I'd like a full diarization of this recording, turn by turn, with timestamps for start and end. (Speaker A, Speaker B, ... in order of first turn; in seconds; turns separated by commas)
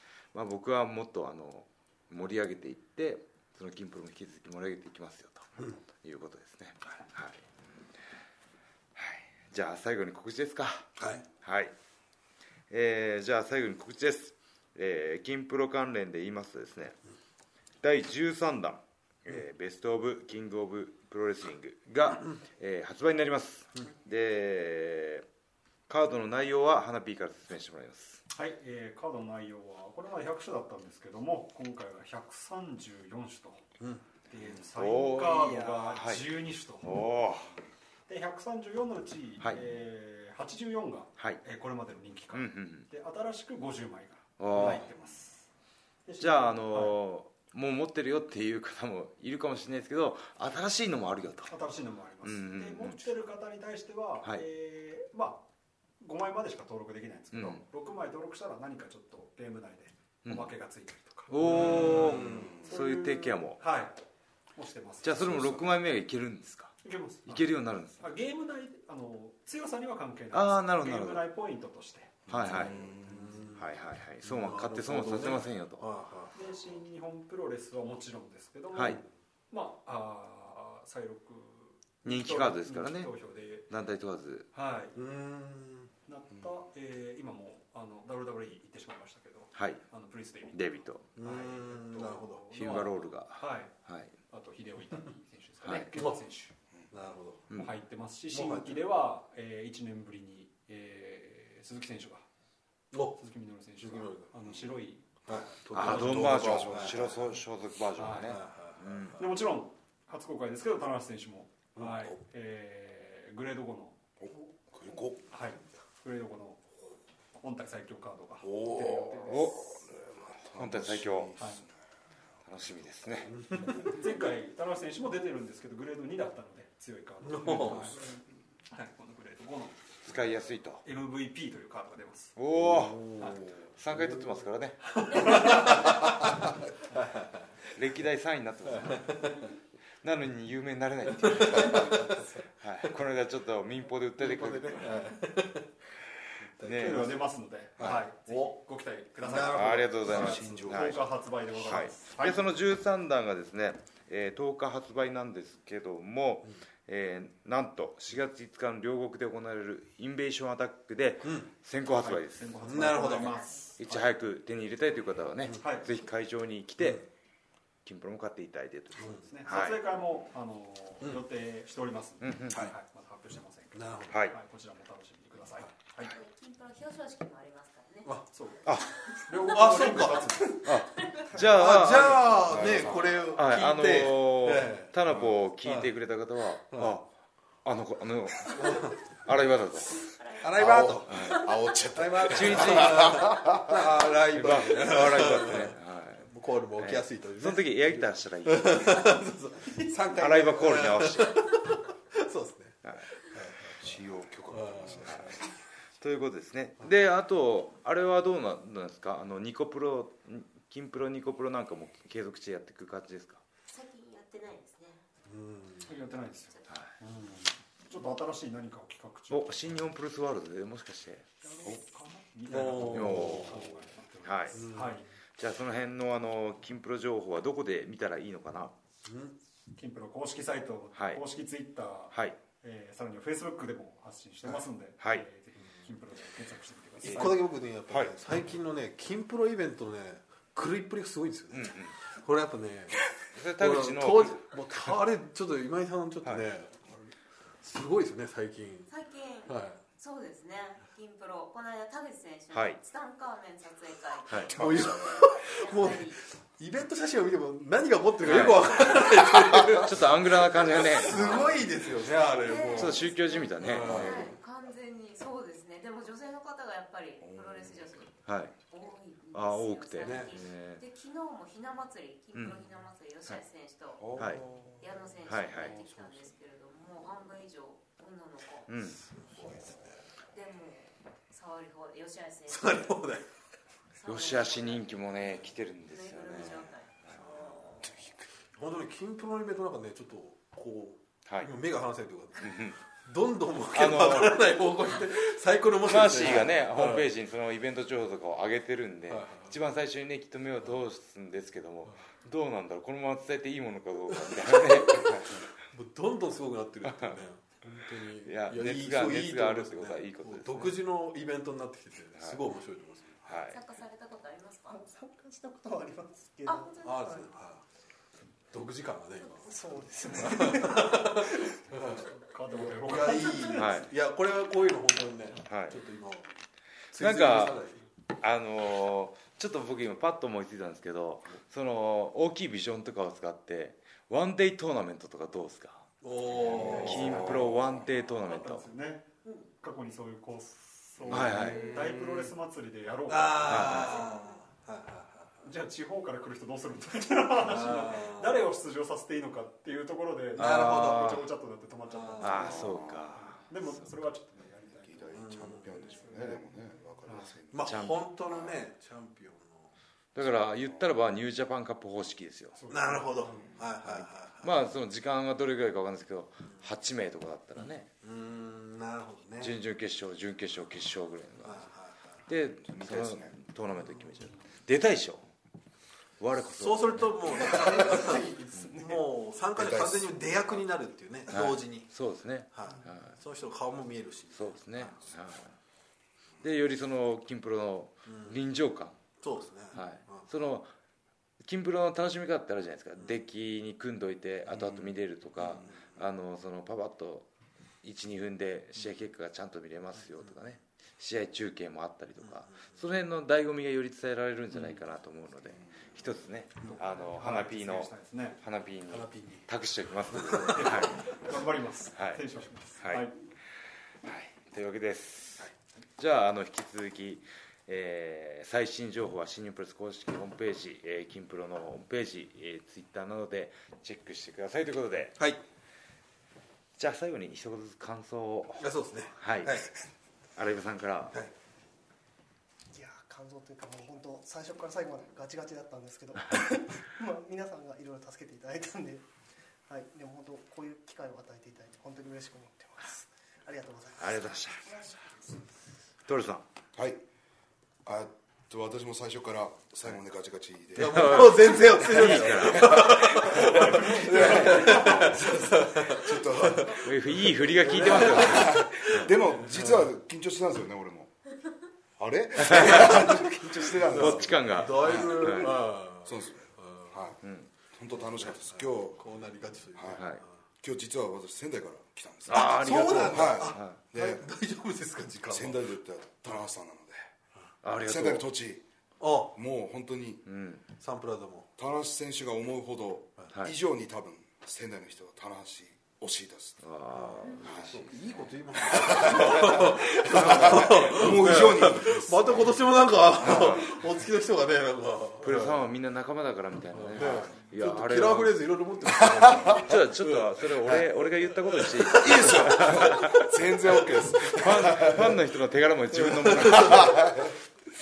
Speaker A: 0.3-7.5, Speaker A: 9.0-11.7, Speaker B: 11.0-11.2, Speaker A: 12.7-17.0, Speaker A: 17.8-25.2, Speaker A: 25.9-28.2, Speaker C: 28.3-33.6, Speaker B: 33.8-34.1, Speaker C: 34.3-37.0, Speaker A: 34.3-37.6, Speaker C: 38.1-45.5, Speaker A: 42.3-42.9, Speaker A: 44.4-44.9, Speaker C: 46.0-47.0, Speaker A: 46.2-51.5, Speaker C: 51.5-55.4, Speaker A: 52.2-53.0, Speaker C: 56.0-64.0, Speaker A: 57.3-57.6, Speaker A: 60.3-60.5, Speaker A: 61.3-63.6, Speaker B: 61.4-62.6, Speaker C: 64.5-65.7, Speaker A: 65.0-68.1, Speaker C: 66.8-72.3, Speaker A: 70.3-71.3, Speaker A: 72.3-72.9, Speaker D: 72.3-73.3, Speaker B: 72.5-73.6, Speaker A: 73.5-75.9, Speaker B: 74.2-76.3, Speaker C: 76.3-83.7, Speaker A: 78.7-79.0, Speaker A: 82.0-83.1, Speaker A: 83.7-84.5, Speaker C: 84.5-85.0, Speaker B: 85.0-85.9, Speaker C: 86.1-93.8, Speaker A: 89.5-89.8, Speaker A: 90.5-91.1, Speaker B: 91.2-92.9, Speaker A: 92.5-94.2, Speaker C: 94.3-96.5, Speaker A: 95.7-95.9, Speaker B: 96.9-97.5, Speaker C: 97.6-102.3, Speaker B: 98.3-98.8, Speaker B: 102.9-103.2, Speaker C: 103.2-106.0, Speaker B: 103.8-104.3, Speaker B: 105.3-107.2, Speaker A: 105.7-109.4, Speaker D: 105.8-107.1, Speaker C: 108.0-108.4, Speaker B: 108.3-108.8, Speaker C: 109.2-114.0, Speaker D: 114.2-115.2, Speaker C: 115.3-116.7, Speaker C: 117.4-119.7, Speaker D: 118.4-121.7, Speaker A: 119.0-121.4, Speaker C: 121.4-121.6, Speaker A: 122.5-123.4, Speaker B: 123.3-124.0, Speaker C: 123.7-130.0, Speaker B: 127.2-128.0, Speaker A: 130.0-130.8, Speaker C: 130.8-132.4, Speaker A: 132.4-135.7, Speaker B: 132.6-134.4, Speaker C: 133.2-133.5, Speaker B: 135.0-137.5, Speaker C: 135.0-136.1, Speaker A: 137.7-139.3, Speaker B: 138.7-139.3, Speaker A: 140.0-145.0, Speaker B: 141.2-142.4, Speaker B: 144.2-145.7, Speaker B: 146.4-147.2, Speaker A: 146.6-147.1, Speaker C: 146.7-152.5, Speaker B: 147.8-148.6, Speaker B: 149.2-149.9, Speaker A: 149.5-163.2, Speaker D: 150.1-151.0, Speaker B: 161.2-161.5, Speaker C: 161.8-164.1, Speaker B: 162.7-163.4, Speaker E: 163.1-163.7, Speaker A: 163.8-167.1, Speaker C: 165.6-165.9, Speaker B: 166.8-167.1, Speaker A: 167.8-169.8, Speaker B: 169.0-169.2, Speaker C: 169.1-176.1, Speaker A: 172.2-172.6, Speaker B: 173.8-174.2, Speaker A: 174.1-174.4, Speaker E: 176.1-178.1, Speaker C: 178.3-178.7, Speaker A: 178.7-179.0, Speaker E: 179.1-179.4, Speaker C: 179.3-180.7, Speaker B: 179.5-180.6, Speaker A: 180.6-187.1, Speaker E: 180.9-181.3, Speaker B: 181.4-184.9, Speaker D: 182.5-183.0, Speaker D: 185.1-185.3, Speaker B: 185.6-185.9, Speaker B: 186.7-187.0, Speaker A: 187.6-190.1, Speaker B: 188.5-189.0, Speaker E: 190.0-190.6, Speaker B: 190.4-191.3, Speaker D: 190.6-193.9, Speaker A: 191.1-191.4, Speaker E: 191.1-191.5, Speaker B: 191.9-203.9, Speaker A: 192.2-193.3, Speaker A: 194.2-199.2, Speaker A: 200.1-201.4, Speaker A: 202.8-203.1, Speaker D: 203.7-205.5, Speaker B: 204.5-205.2, Speaker A: 205.1-205.4, Speaker A: 206.0-213.4, Speaker E: 213.7-215.1, Speaker B: 215.3-215.9, Speaker C: 215.8-219.8, Speaker E: 216.5-216.8, Speaker A: 219.3-221.3, Speaker C: 221.4-225.1, Speaker B: 222.5-223.8, Speaker A: 222.9-223.7, Speaker A: 224.2-224.7, Speaker B: 224.6-225.0, Speaker A: 225.4-228.7, Speaker B: 229.1-229.3, Speaker C: 229.8-237.4, Speaker A: 230.9-231.2, Speaker B: 237.0-248.9, Speaker A: 237.0-237.3, Speaker A: 237.9-238.2, Speaker A: 241.5-241.9, Speaker A: 243.3-244.9, Speaker E: 248.9-256.2, Speaker B: 249.5-249.8, Speaker A: 252.5-252.8, Speaker A: 254.3-254.8, Speaker B: 254.5-264.3, Speaker D: 254.6-255.3, Speaker A: 258.2-261.7, Speaker E: 262.4-274.3, Speaker A: 262.7-264.4, Speaker D: 267.2-268.1, Speaker A: 268.2-268.6, Speaker A: 269.3-270.8, Speaker B: 270.0-270.4, Speaker A: 272.3-272.6, Speaker D: 274.0-274.5, Speaker A: 274.2-274.4, Speaker E: 274.8-278.7, Speaker A: 275.2-275.8, Speaker B: 275.5-276.2, Speaker A: 278.7-279.0, Speaker B: 279.0-280.1, Speaker E: 280.3-283.1, Speaker B: 282.5-283.3, Speaker E: 283.9-285.0, Speaker A: 284.1-287.2, Speaker E: 285.9-287.9, Speaker B: 287.1-288.0, Speaker B: 288.5-297.1, Speaker A: 292.4-292.8, Speaker A: 293.7-294.4, Speaker A: 295.9-305.4, Speaker B: 299.1-299.6, Speaker B: 304.7-305.1, Speaker B: 305.7-313.4, Speaker A: 306.9-307.2, Speaker A: 308.2-310.8, Speaker A: 313.2-313.6, Speaker E: 313.5-314.8, Speaker F: 314.7-317.3, Speaker E: 316.5-316.9, Speaker B: 316.8-317.6, Speaker B: 318.5-326.3, Speaker F: 319.5-321.1, Speaker C: 321.7-323.8, Speaker A: 323.5-323.9, Speaker A: 325.4-325.8, Speaker B: 326.9-327.8, Speaker A: 327.0-327.6, Speaker A: 328.2-338.7, Speaker B: 336.0-337.5, Speaker C: 336.6-337.4, Speaker C: 338.2-339.1, Speaker C: 339.6-344.2, Speaker B: 341.1-342.3, Speaker A: 341.1-341.7, Speaker B: 343.1-345.5, Speaker A: 343.5-344.1, Speaker C: 345.4-356.5, Speaker B: 347.4-348.4, Speaker B: 350.4-351.2, Speaker A: 350.4-351.2, Speaker B: 351.9-352.7, Speaker A: 352.2-353.5, Speaker D: 352.5-353.1, Speaker D: 354.9-357.9, Speaker B: 355.1-355.9, Speaker C: 357.0-357.4, Speaker B: 357.5-359.7, Speaker A: 357.7-358.1, Speaker A: 360.1-362.6, Speaker C: 362.6-363.6, Speaker B: 362.7-364.6, Speaker A: 363.9-367.9, Speaker B: 368.0-369.6, Speaker A: 369.4-371.7, Speaker B: 371.4-372.2, Speaker A: 372.3-375.3, Speaker D: 372.6-373.4, Speaker A: 376.2-378.7, Speaker B: 376.5-381.9, Speaker F: 377.4-379.0, Speaker D: 379.6-380.2, Speaker A: 381.3-383.2, Speaker B: 382.5-385.1, Speaker A: 384.3-385.6, Speaker A: 386.4-389.0, Speaker B: 388.1-388.4, Speaker B: 389.2-390.3, Speaker A: 389.7-390.7, Speaker A: 391.4-397.3, Speaker B: 394.5-395.9, Speaker A: 397.8-411.1, Speaker B: 402.3-402.7, Speaker C: 406.7-408.4, Speaker B: 408.9-409.5, Speaker B: 410.1-410.9, Speaker C: 410.5-413.1, Speaker A: 412.8-413.1, Speaker A: 414.0-425.2, Speaker A: 426.8-429.7, Speaker B: 428.6-429.7, Speaker A: 430.4-431.2, Speaker F: 432.7-439.1, Speaker F: 439.7-445.1, Speaker A: 444.0-444.8, Speaker A: 446.1-446.4, Speaker D: 446.8-447.0, Speaker D: 447.9-452.8, Speaker A: 450.8-455.2, Speaker B: 450.8-459.9, Speaker D: 453.4-456.9, Speaker C: 453.5-454.9, Speaker A: 456.8-459.1, Speaker D: 457.8-461.1, Speaker D: 462.0-465.5, Speaker A: 462.4-465.6, Speaker B: 462.4-467.0, Speaker D: 466.0-467.2, Speaker A: 467.2-467.5, Speaker D: 467.7-469.0, Speaker B: 468.2-470.3, Speaker D: 469.7-470.0, Speaker A: 470.0-470.2, Speaker D: 470.6-474.2, Speaker A: 472.3-473.8, Speaker B: 472.3-475.6, Speaker D: 475.3-477.1, Speaker A: 477.6-478.3, Speaker D: 477.8-478.6, Speaker B: 479.0-479.3, Speaker D: 479.3-480.2, Speaker A: 480.3-480.6, Speaker B: 480.8-481.5, Speaker D: 481.6-486.6, Speaker A: 486.6-488.1, Speaker B: 486.9-495.6, Speaker D: 487.4-487.9, Speaker D: 488.6-492.7, Speaker A: 489.0-491.1, Speaker A: 493.2-493.8, Speaker A: 495.2-498.4, Speaker B: 496.7-503.0, Speaker A: 499.5-503.3, Speaker D: 501.9-505.2, Speaker A: 504.3-507.3, Speaker B: 506.0-507.0, Speaker D: 506.6-507.3